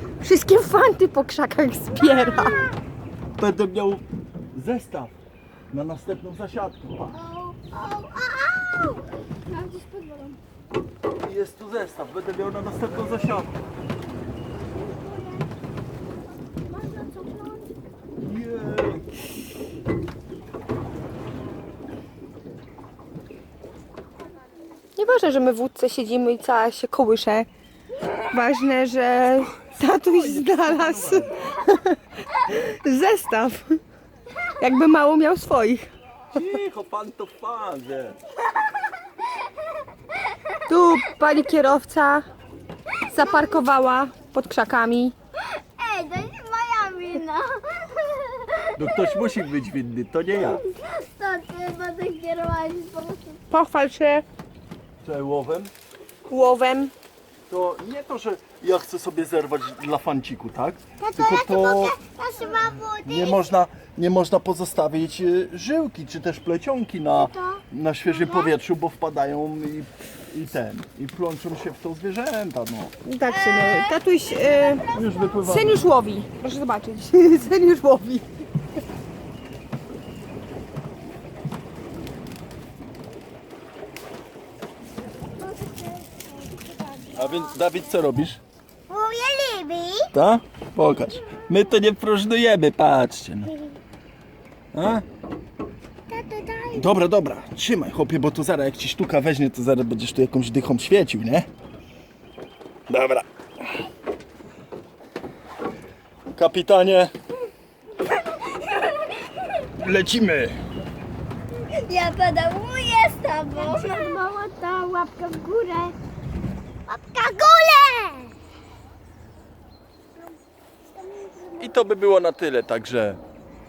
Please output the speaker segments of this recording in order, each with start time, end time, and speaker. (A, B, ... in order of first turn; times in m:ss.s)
0:00.2-0:02.6 A
0:02.0-0:02.8 B
0:03.4-0:05.2 C
0:05.7-0:07.2 C
0:07.1-0:10.4 B
0:11.2-0:13.5 C
0:14.5-0:15.5 B
0:16.3-0:17.7 B
0:18.2-0:19.1 C
0:25.0-0:27.5 A
0:28.2-0:33.8 A
0:30.0-0:31.6 C
0:34.6-0:35.9 A
0:36.3-0:38.2 C
0:40.7-0:42.2 A
0:43.1-0:45.1 A
0:43.2-0:43.6 B
0:45.4-0:48.9 B
0:48.8-0:50.6 C
0:50.4-0:53.4 B
0:53.5-0:54.2 A
0:55.0-0:55.7 C
0:56.3-0:56.9 A
0:57.5-1:12.9 C
1:01.0-1:03.4 B
1:07.2-1:08.5 B
1:13.0-1:14.8 A
1:13.3-1:15.4 B
1:14.9-1:15.9 C
1:15.4-1:18.3 A
1:25.4-1:27.5 B
1:27.1-1:28.4 C
1:28.9-1:30.1 B
1:30.1-1:33.5 C
1:33.5-1:33.8 B
1:34.7-1:35.0 C
1:36.1-1:36.9 B
1:36.7-1:41.5 C
1:42.9-1:43.2 C
1:46.3-1:47.1 C
1:49.7-1:50.6 C
1:51.8-1:56.0 B
1:56.9-1:58.4 B
2:00.9-2:01.7 B
2:01.6-2:03.2 C